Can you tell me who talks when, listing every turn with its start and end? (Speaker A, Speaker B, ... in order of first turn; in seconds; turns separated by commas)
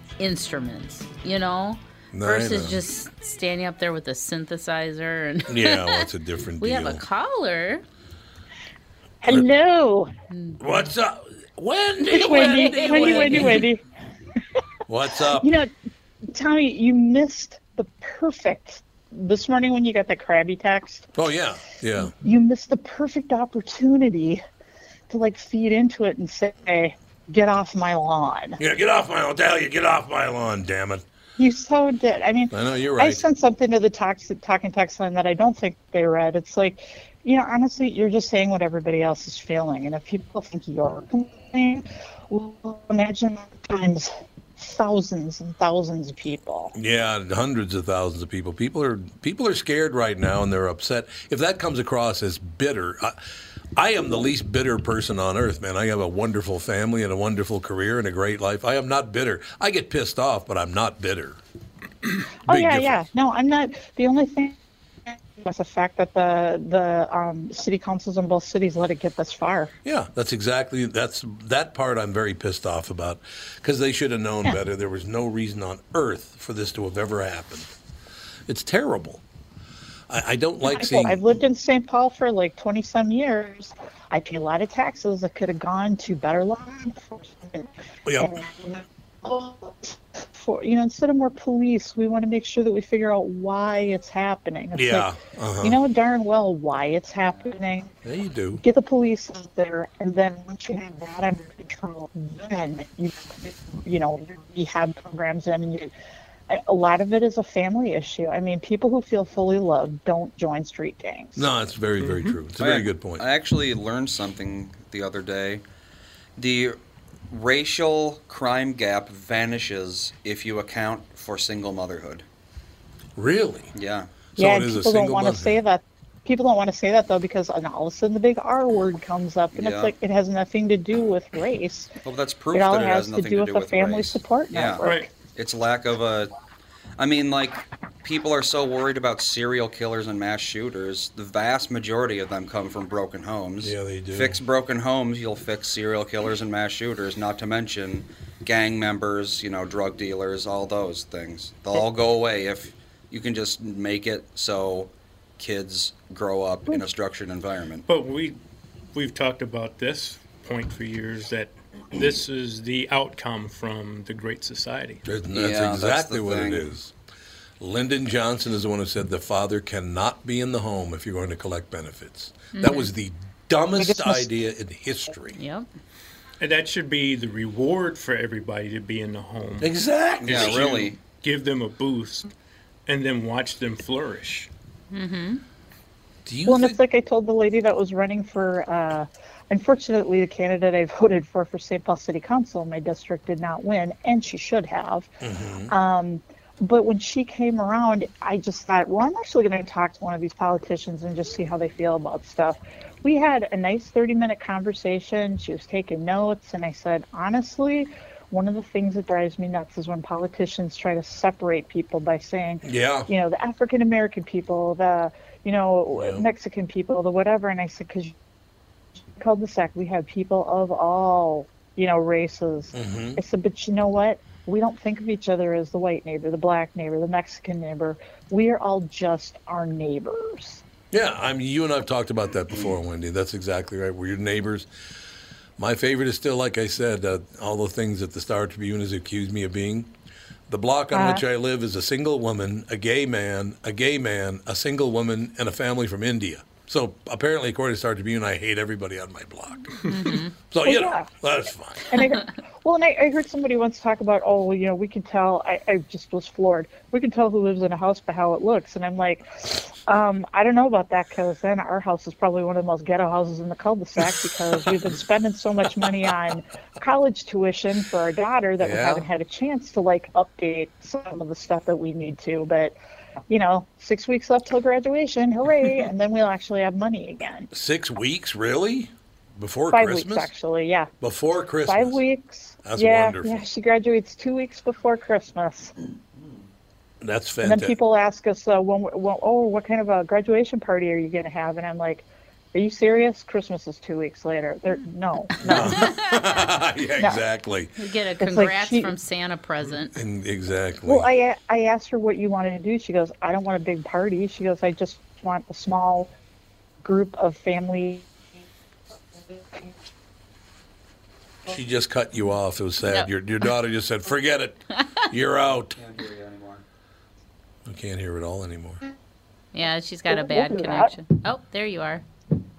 Speaker A: 0.2-6.1, Speaker B: 2.1-2.8, Speaker B: 5.5-7.0, Speaker A: 6.6-7.8, Speaker C: 9.2-10.1, Speaker A: 10.3-10.6, Speaker B: 10.6-13.7, Speaker A: 12.1-13.7, Speaker C: 12.1-13.8, Speaker B: 14.9-15.5, Speaker C: 15.3-15.7, Speaker C: 16.3-21.1, Speaker B: 21.1-22.1, Speaker C: 22.2-24.4, Speaker C: 25.1-28.6, Speaker B: 28.6-31.0, Speaker C: 31.4-46.7, Speaker B: 32.5-33.2, Speaker B: 46.8-53.2, Speaker B: 53.8-61.4, Speaker C: 62.5-69.7, Speaker B: 62.5-63.0, Speaker B: 69.8-77.7, Speaker B: 78.5-79.2, Speaker B: 80.1-81.2, Speaker C: 80.7-97.9, Speaker B: 88.1-88.3, Speaker B: 94.7-95.8, Speaker B: 98.0-98.6, Speaker C: 98.6-105.9, Speaker C: 106.5-111.5, Speaker B: 111.4-113.2, Speaker D: 112.0-112.3, Speaker E: 112.6-115.6, Speaker E: 116.4-116.8, Speaker E: 117.3-122.2, Speaker B: 123.2-123.7, Speaker E: 123.8-124.1, Speaker B: 124.4-125.6, Speaker C: 124.4-131.9, Speaker E: 129.5-129.9, Speaker E: 132.1-136.3, Speaker C: 132.5-135.1, Speaker D: 134.8-135.1, Speaker E: 137.0-157.9, Speaker B: 143.6-144.4, Speaker D: 157.9-158.4, Speaker D: 158.9-165.0, Speaker B: 165.1-166.9, Speaker E: 165.3-166.7, Speaker B: 167.6-175.4, Speaker A: 172.6-172.9, Speaker C: 173.8-174.3, Speaker A: 175.4-175.7, Speaker D: 176.4-179.7, Speaker B: 179.6-180.7, Speaker E: 180.2-181.0, Speaker D: 180.2-182.3, Speaker D: 182.9-184.5, Speaker A: 184.9-185.4, Speaker B: 186.3-186.8, Speaker C: 186.4-195.1, Speaker B: 195.2-195.7, Speaker C: 195.7-218.2, Speaker B: 212.6-213.1, Speaker B: 215.9-216.2, Speaker C: 219.2-230.6, Speaker B: 222.7-223.2, Speaker B: 230.9-234.7, Speaker B: 235.6-239.9, Speaker B: 240.5-251.9, Speaker C: 240.9-241.2, Speaker A: 249.9-250.3, Speaker C: 250.6-251.1, Speaker C: 251.9-272.8, Speaker B: 268.6-269.1, Speaker C: 273.3-277.5, Speaker B: 277.5-280.3, Speaker C: 279.7-280.9, Speaker B: 281.0-282.0, Speaker C: 281.7-285.7, Speaker B: 282.6-283.4, Speaker B: 287.0-287.8, Speaker C: 287.4-295.9, Speaker B: 295.4-297.7, Speaker A: 295.5-295.9, Speaker A: 297.8-299.9, Speaker C: 298.2-298.9, Speaker B: 299.9-301.1, Speaker C: 300.9-306.1, Speaker C: 306.8-308.1, Speaker C: 309.3-309.8, Speaker B: 311.5-315.8, Speaker E: 315.8-316.6, Speaker B: 317.7-318.8, Speaker A: 319.5-322.0, Speaker C: 320.1-320.9